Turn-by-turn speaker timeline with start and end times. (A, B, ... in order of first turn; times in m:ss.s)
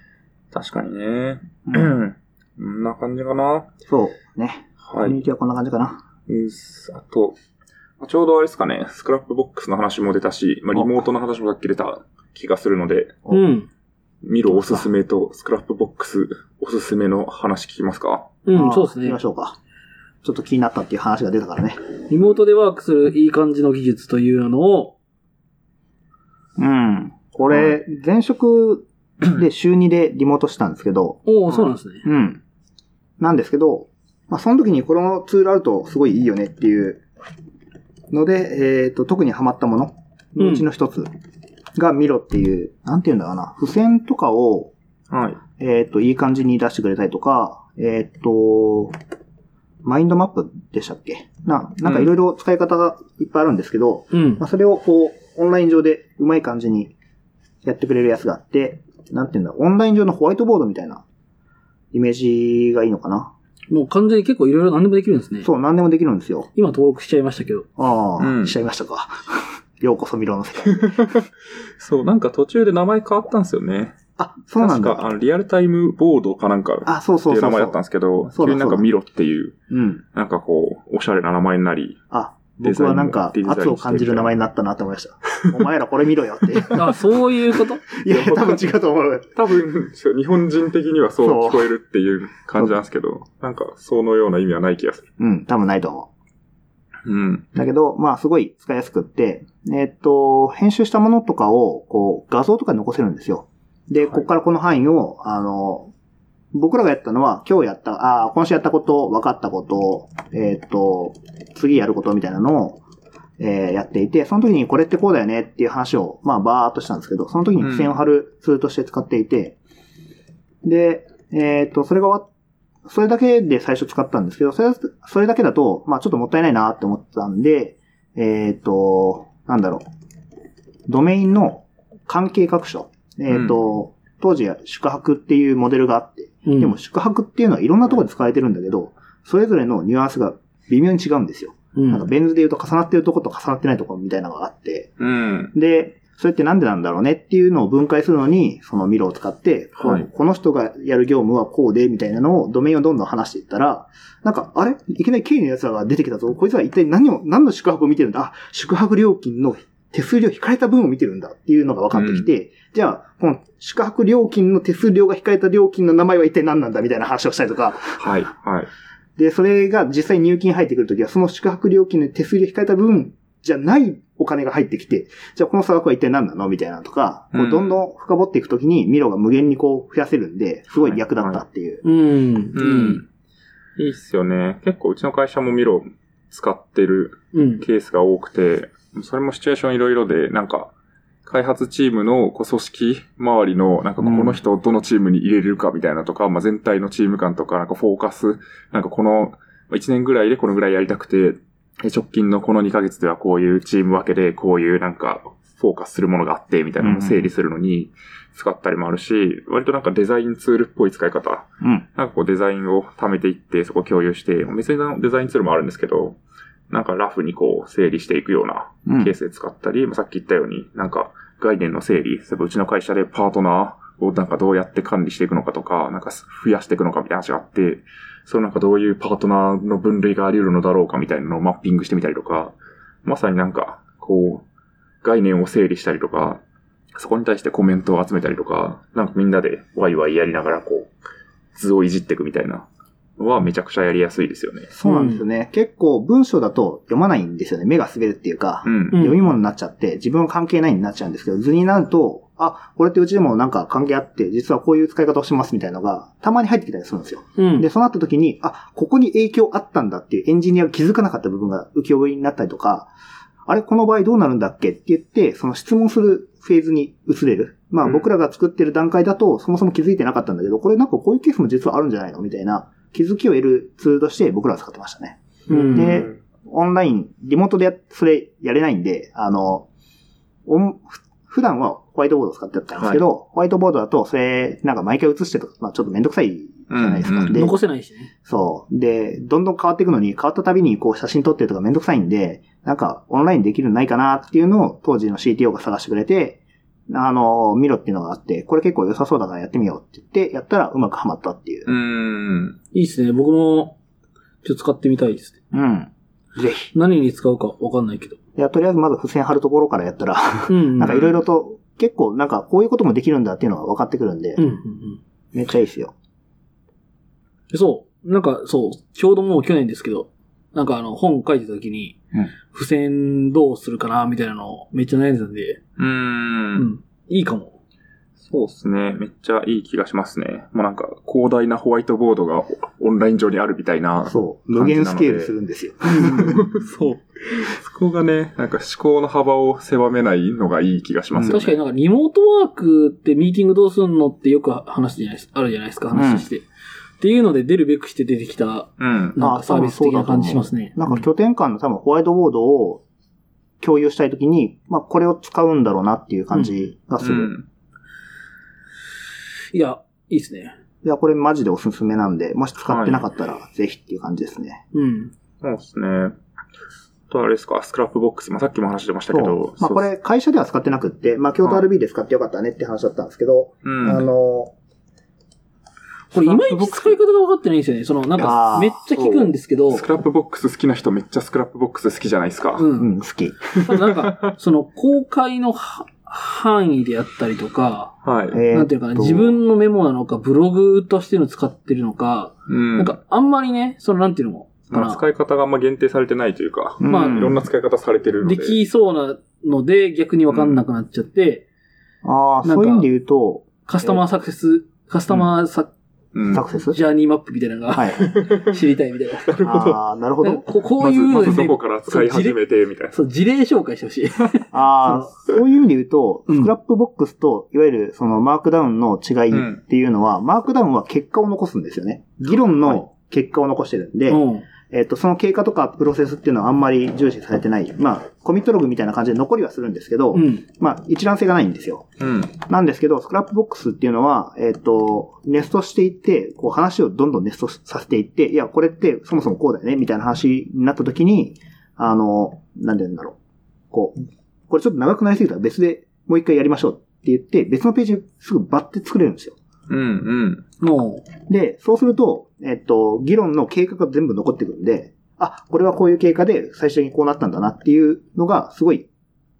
0:00.5-0:03.7 A
0:01.7-0:02.0 B
0:03.9-0:06.0 B
0:04.8-0:05.2 A
0:06.3-0:07.4 A
0:08.0-0:13.2 A
0:10.7-0:11.0 B
0:13.3-0:13.7 C
0:14.2-0:18.3 A
0:14.5-0:14.9 B
0:18.4-0:19.2 C
0:18.5-0:19.6 B
0:20.2-0:21.8 B
0:22.1-0:24.9 C
0:26.6-0:32.4 B
0:31.2-0:32.0 C
0:33.2-0:37.0 B
0:38.1-0:41.1 B
0:40.4-0:40.6 C
0:41.8-0:44.7 B
0:45.1-0:45.4 A
0:45.6-0:48.9 B
0:49.8-0:56.9 B
0:51.8-0:52.1 A
0:54.1-0:54.4 C
0:57.6-1:01.0 B
1:01.9-1:03.3 B
1:03.7-1:05.5 C
1:05.4-1:06.5 B
1:06.5-1:07.6 C
1:07.8-1:11.2 B
1:08.2-1:08.5 A
1:10.8-1:11.2 A
1:11.8-1:14.0 A
1:14.2-1:15.1 B
1:14.6-1:19.6 A
1:16.8-1:17.8 B
1:18.3-1:18.9 B
1:19.7-1:20.0 B
1:20.1-1:22.0 A
1:22.1-1:27.0 B
1:22.6-1:24.3 A
1:26.7-1:27.8 C
1:27.9-1:29.3 B
1:28.0-1:28.7 A
1:29.3-1:35.0 A
1:31.2-1:31.7 B
1:35.2-1:36.1 B
1:37.0-1:37.5 A
1:37.5-1:45.9 B
1:46.5-1:52.8 B
1:53.4-1:59.6 B
1:57.6-1:58.0 A
2:00.6-2:02.3 B
2:02.8-2:09.8 B
2:10.9-2:24.9 B
2:13.3-2:13.6 A
2:16.4-2:16.8 C
2:21.8-2:22.0 C
2:25.0-2:25.5 A
2:25.5-2:48.1 B
2:29.8-2:30.1 A
2:41.9-2:42.3 A
2:48.0-2:48.7 A
2:49.2-3:01.8 B
2:57.3-2:57.8 A
3:00.8-3:01.4 A
3:01.8-3:03.0 C
3:02.5-3:03.0 A
3:03.8-3:10.7 A
3:07.3-3:07.6 C
3:11.2-3:36.2 A
3:14.0-3:14.4 B
3:26.8-3:27.3 B
3:31.6-3:31.8 B
3:36.7-3:54.4 A
3:38.8-3:39.1 B
3:55.0-3:56.4 A
3:57.0-4:00.9 A
4:01.5-4:02.7 A
4:03.2-4:04.7 A
4:04.7-4:22.9 B
4:04.8-4:05.2 C
4:08.6-4:09.0 A
4:08.9-4:09.2 C
4:17.4-4:17.6 C
4:23.5-4:39.7 B
4:35.5-4:36.0 C
4:35.5-4:36.2 A
4:40.4-4:47.6 B
4:42.8-4:43.0 A
4:46.7-4:47.4 A
4:47.3-4:48.1 C
4:48.2-5:01.7 B
5:01.7-5:02.6 A
5:02.7-5:03.8 C
5:04.4-5:05.4 C
5:05.5-5:06.7 B
5:06.7-5:08.2 C
5:08.4-5:14.4 B
5:10.5-5:11.1 C
5:14.4-5:15.0 C
5:15.3-5:15.9 B
5:17.5-5:22.0 C
5:22.5-5:25.6 C
5:25.8-5:26.7 A
5:26.6-5:27.6 C
5:28.2-5:35.3 A
5:34.1-5:36.4 B
5:35.9-5:36.4 C
5:36.0-5:41.5 A
5:41.3-5:46.4 C
5:45.9-5:46.3 B
5:47.0-5:51.0 C
5:48.8-5:49.2 A
5:49.2-5:52.8 B
5:53.6-5:57.3 B
5:57.0-5:57.4 A
5:59.5-6:00.5 C
6:00.8-6:04.6 B
6:02.6-6:03.0 A
6:04.7-6:05.1 C
6:05.4-6:06.2 A
6:07.1-6:09.9 A
6:09.1-6:14.5 B
6:13.6-6:14.0 A
6:16.1-6:19.8 C
6:16.1-6:17.0 A
6:18.2-6:18.8 B
6:18.8-6:22.6 A
6:22.6-6:22.9 C
6:22.8-6:23.4 B
6:23.6-6:24.3 A
6:23.6-6:27.9 C
6:28.0-6:28.4 A
6:28.3-6:29.4 B
6:28.5-6:35.0 C
6:32.5-6:32.9 A
6:34.7-6:38.6 A
6:36.8-6:37.4 B
6:36.9-6:37.2 C
6:38.2-6:41.4 C
6:40.3-6:40.6 A
6:42.0-6:44.0 B
6:42.4-6:42.8 C
6:43.6-6:45.7 C
6:46.1-6:46.4 A
6:46.3-6:46.8 B
6:46.7-6:49.4 C
6:47.7-6:48.1 B
6:48.2-6:48.5 A
6:49.3-6:49.8 A
6:49.4-6:50.4 B
6:50.2-6:52.4 C
6:50.8-6:53.0 A
6:52.9-6:55.1 C
6:54.5-7:11.9 B
6:59.3-6:59.6 A
7:04.1-7:04.5 C
7:10.1-7:10.4 C
7:12.0-7:12.3 A
7:12.4-7:23.2 B
7:24.5-7:29.4 B
7:29.7-7:30.4 A
7:30.6-7:31.0 C
7:31.3-7:38.9 B